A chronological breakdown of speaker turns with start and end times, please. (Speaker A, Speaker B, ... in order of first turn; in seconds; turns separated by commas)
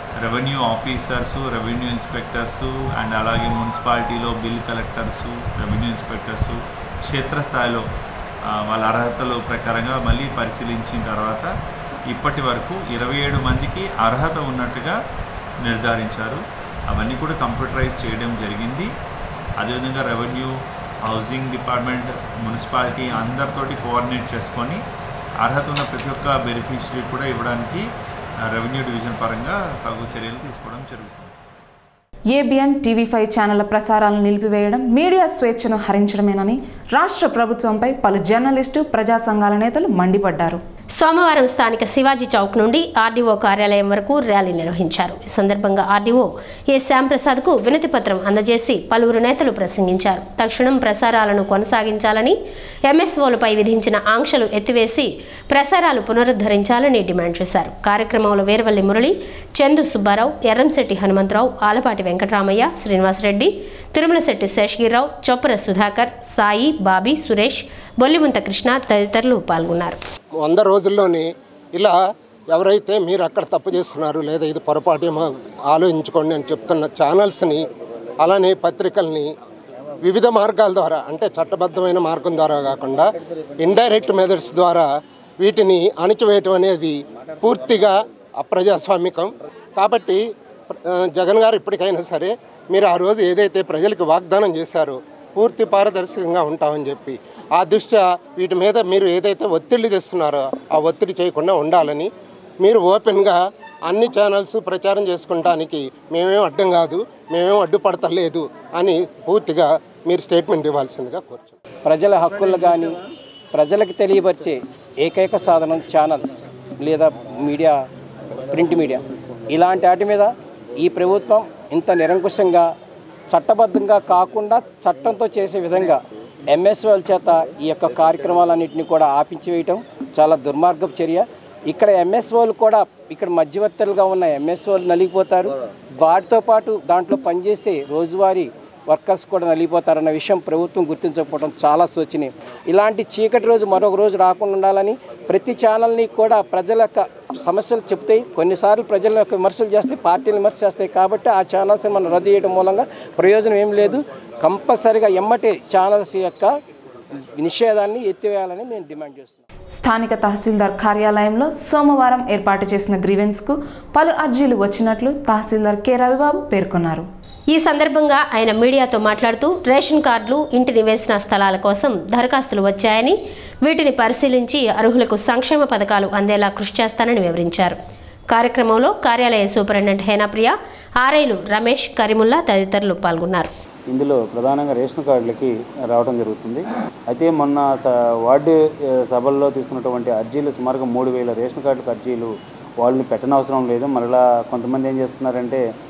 Speaker A: 0.2-7.8, Speaker A: 8.7-11.5, Speaker A: 12.1-14.9, Speaker A: 15.7-18.9, Speaker A: 19.6-20.5, Speaker A: 21.1-24.8, Speaker A: 25.4-27.8, Speaker A: 28.5-31.3, Speaker B: 32.3-40.6, Speaker C: 41.0-52.4, Speaker C: 52.9-70.0, Speaker D: 70.4-72.0, Speaker D: 72.5-77.7, Speaker D: 78.2-79.3, Speaker D: 80.0-84.9, Speaker D: 85.4-102.1, Speaker D: 102.6-111.5, Speaker E: 111.8-113.0, Speaker E: 113.5-117.8, Speaker E: 118.5-122.7, Speaker E: 123.3-156.5, Speaker E: 157.4-159.4, Speaker B: 159.7-167.1, Speaker C: 167.5-177.8, Speaker C: 178.3-183.5, Speaker F: 183.9-195.6